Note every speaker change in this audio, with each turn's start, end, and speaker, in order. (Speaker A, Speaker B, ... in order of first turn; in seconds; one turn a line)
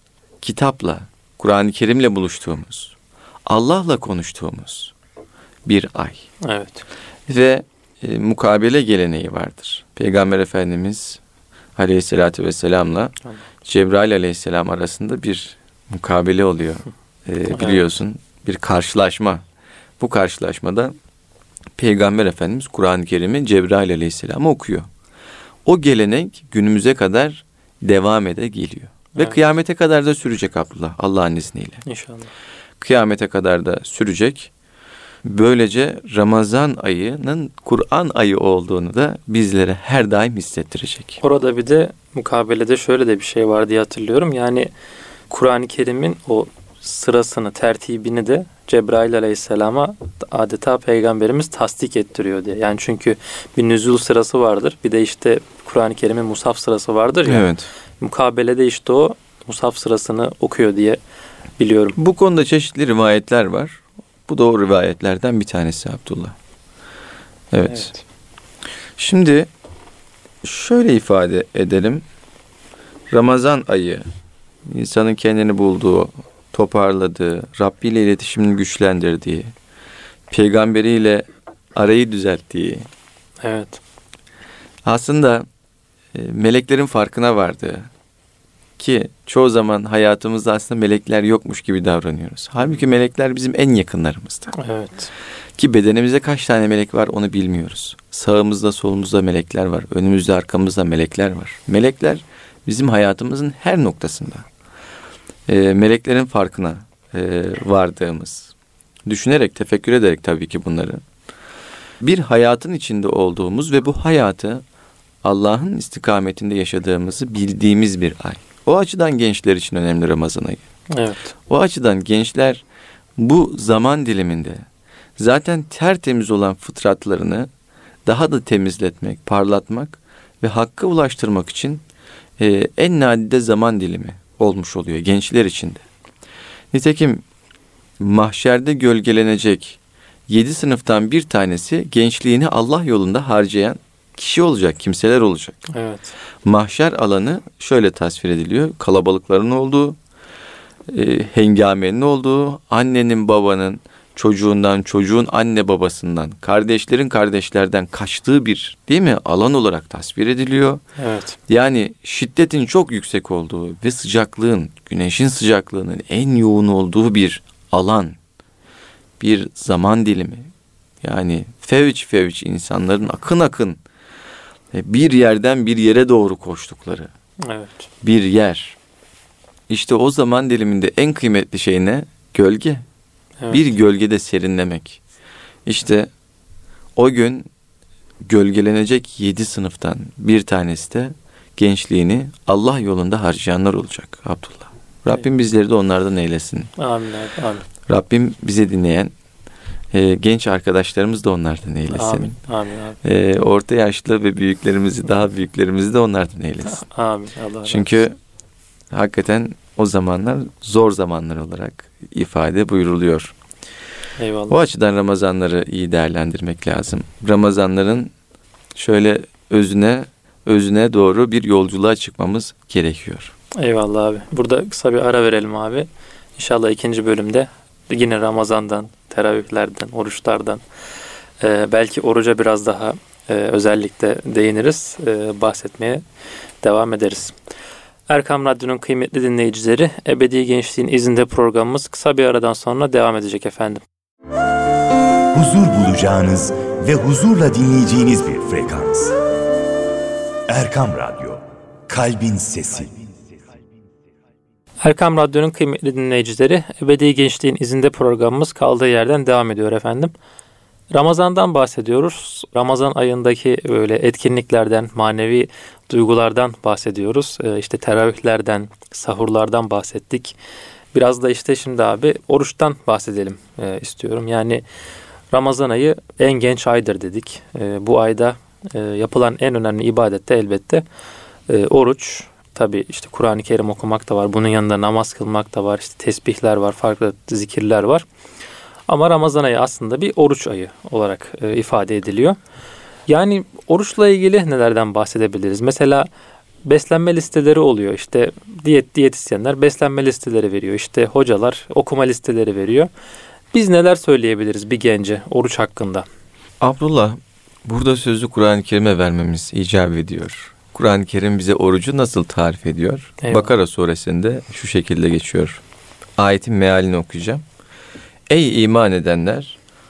Speaker A: 0.4-4.9
Speaker A: 5.6-6.3
Speaker B: 6.4-6.8
Speaker A: 7.3-11.2
Speaker A: 11.8-19.4
Speaker B: 17.5-17.8
Speaker A: 20.0-20.9
Speaker A: 21.8-24.9
Speaker A: 25.6-31.8
Speaker B: 31.9-32.3
Speaker A: 32.8-34.5
Speaker A: 35.2-41.2
Speaker B: 41.2-44.7
Speaker B: 45.3-57.5
Speaker A: 57.2-57.7
Speaker B: 58.0-61.0
Speaker B: 61.6-62.0
Speaker A: 62.0-66.3
Speaker A: 67.5-67.9
Speaker B: 67.7-68.0
Speaker A: 69.0-69.5
Speaker A: 70.4-72.0
Speaker A: 73.1-74.0
Speaker A: 74.6-79.5
Speaker A: 80.3-82.9
Speaker B: 83.4-83.8
Speaker A: 84.8-85.5
Speaker A: 86.1-87.9
Speaker A: 88.8-94.5
Speaker B: 94.5-95.1
Speaker A: 95.6-104.5
Speaker A: 105.5-108.5
Speaker A: 109.0-111.0
Speaker A: 112.0-114.6
Speaker A: 115.2-120.6
Speaker B: 120.9-121.3
Speaker A: 121.5-122.6
Speaker A: 123.2-124.6
Speaker A: 125.2-127.5
Speaker A: 128.1-131.8
Speaker A: 132.4-135.8
Speaker A: 136.7-137.2
Speaker A: 138.0-145.7
Speaker B: 145.7-146.1
Speaker A: 146.4-150.0
Speaker A: 150.9-160.8
Speaker B: 161.0-161.4
Speaker A: 161.5-168.2
Speaker A: 169.2-170.5
Speaker A: 171.0-173.8
Speaker A: 174.7-177.1
Speaker B: 177.4-177.9
Speaker A: 178.0-178.8
Speaker A: 179.7-182.8
Speaker B: 183.4-183.6
Speaker A: 183.5-185.0
Speaker A: 185.6-186.1
Speaker A: 186.9-187.5
Speaker A: 188.2-196.7
Speaker B: 196.8-197.7
Speaker A: 197.8-199.1
Speaker A: 199.9-202.4
Speaker B: 201.9-203.0
Speaker A: 203.0-206.8
Speaker B: 206.6-208.0
Speaker A: 207.7-208.2
Speaker A: 208.9-213.3
Speaker B: 214.2-214.6
Speaker A: 214.5-218.1
Speaker A: 218.7-223.3
Speaker B: 223.6-230.6
Speaker B: 231.4-236.0
Speaker B: 236.6-237.3
Speaker B: 238.1-243.8
Speaker C: 245.3-249.2
Speaker C: 250.5-253.1
Speaker B: 254.8-260.1
Speaker B: 260.9-270.4
Speaker B: 270.9-274.6
Speaker B: 275.3-280.8
Speaker B: 281.5-288.1
Speaker B: 288.9-292.4
Speaker B: 293.1-296.1
Speaker B: 296.6-302.9
Speaker B: 303.5-306.1
Speaker A: 306.6-315.6
Speaker B: 313.2-313.5
Speaker A: 316.2-317.4
Speaker A: 318.3-319.6